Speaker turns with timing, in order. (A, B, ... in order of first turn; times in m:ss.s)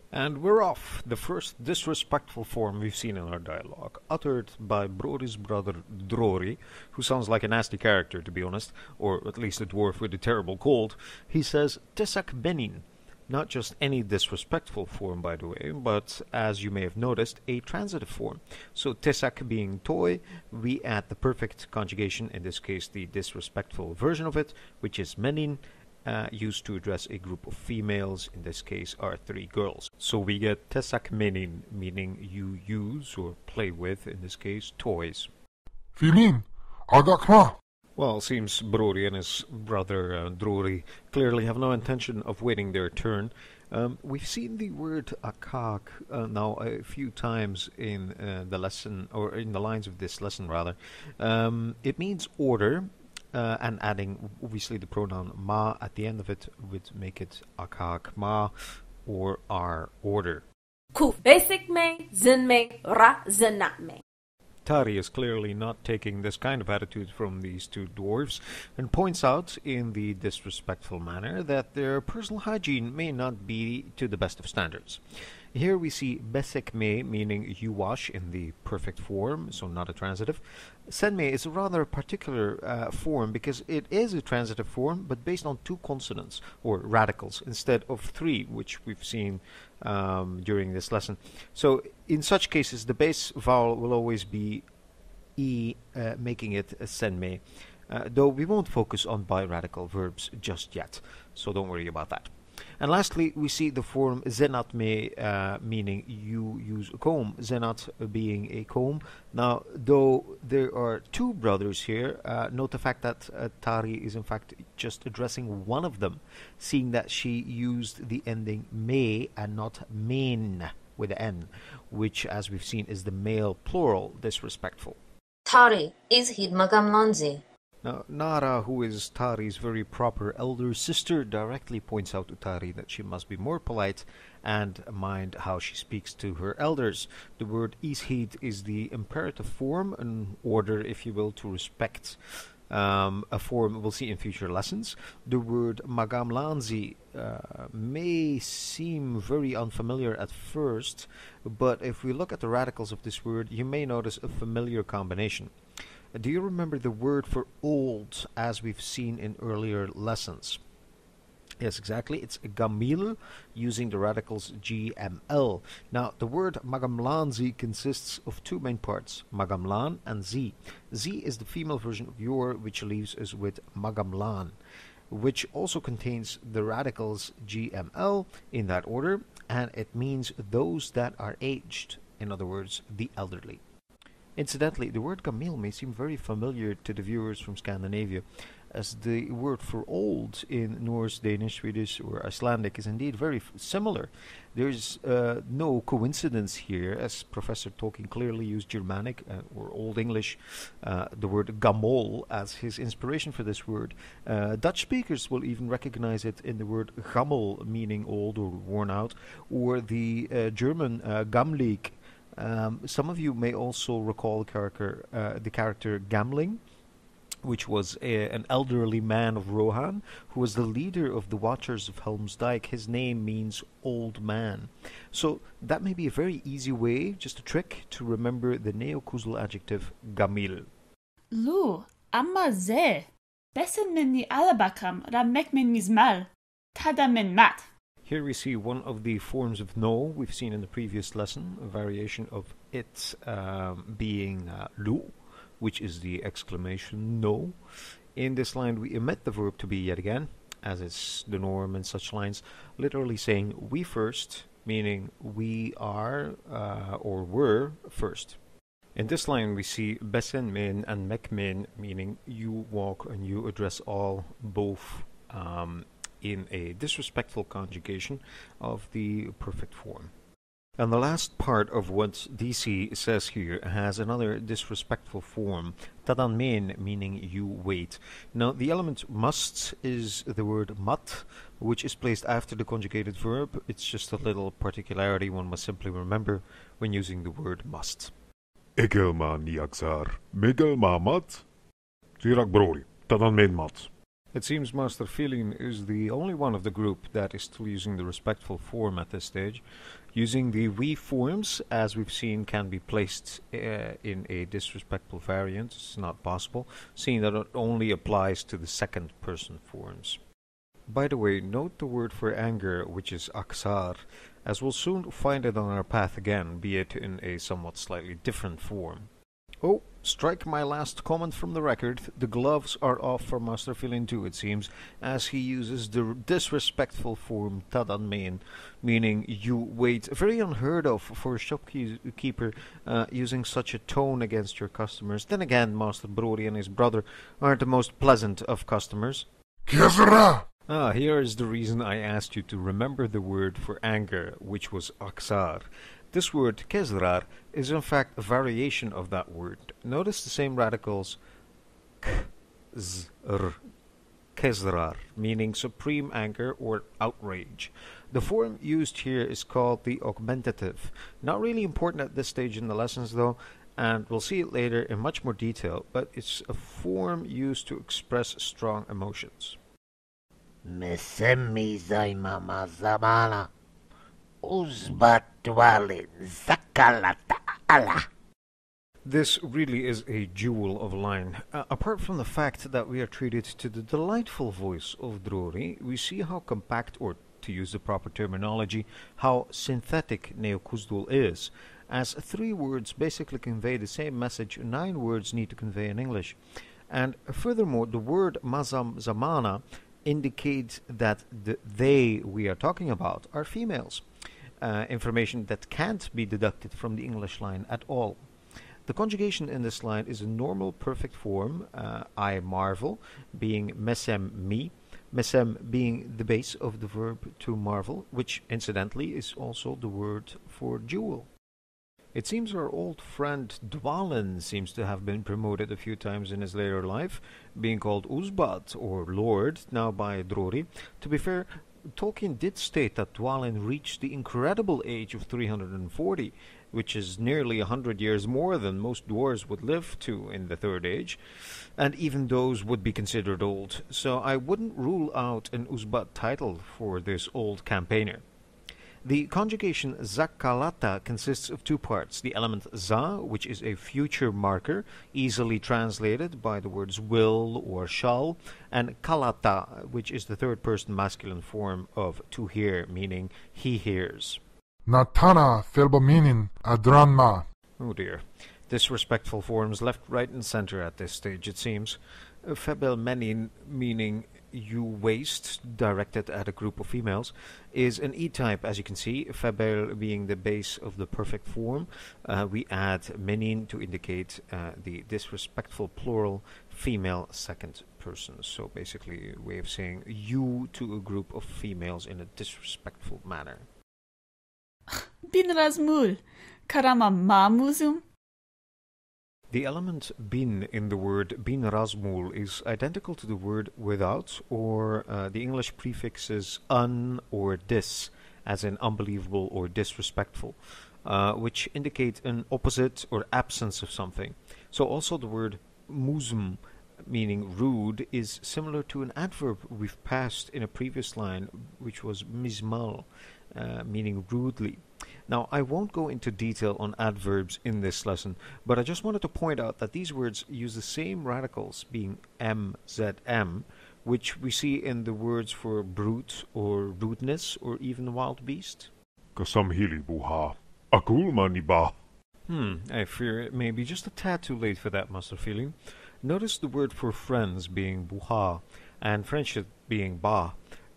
0:00.1-0:35.3 A
0:36.0-0:37.6 B
0:38.0-0:58.5 A
0:59.0-1:00.4 A
1:00.9-1:04.0 C
1:04.6-1:15.0 A
1:15.5-1:34.6 A
1:35.4-2:05.0 A
2:05.5-2:07.4 D
2:07.8-2:22.2 A
2:22.7-2:35.5 A
2:36.1-2:40.6 A
2:41.6-2:54.5 A
2:55.1-3:03.6 A
3:04.4-3:36.6 A
3:37.4-3:50.7 A
3:51.3-3:57.7 E
3:58.0-4:07.5 A
4:08.2-4:18.4 A
4:19.0-4:30.1 A
4:30.8-4:48.1 A
4:48.8-4:51.4 F
4:52.2-4:53.9 F
4:54.3-4:59.6 A
5:00.1-5:10.2 A
5:10.9-5:19.1 A
5:19.6-5:39.3 A
5:39.7-5:40.4 B
5:40.7-5:51.2 A
5:52.0-5:53.6 A
5:54.4-6:09.6 A
6:10.6-6:13.5 G
6:14.4-6:18.1 G
6:19.0-6:36.4 A
6:36.9-6:44.0 A
6:44.6-6:48.2 A
6:48.9-7:01.3 A
7:02.1-7:21.2 A
7:21.8-7:28.2 A
7:29.0-7:44.4 A
7:44.8-7:47.4 B
7:47.8-8:13.6 A
8:14.9-8:18.0 E
8:19.5-8:58.9 A
8:59.4-9:01.9 F
9:02.5-9:10.6 A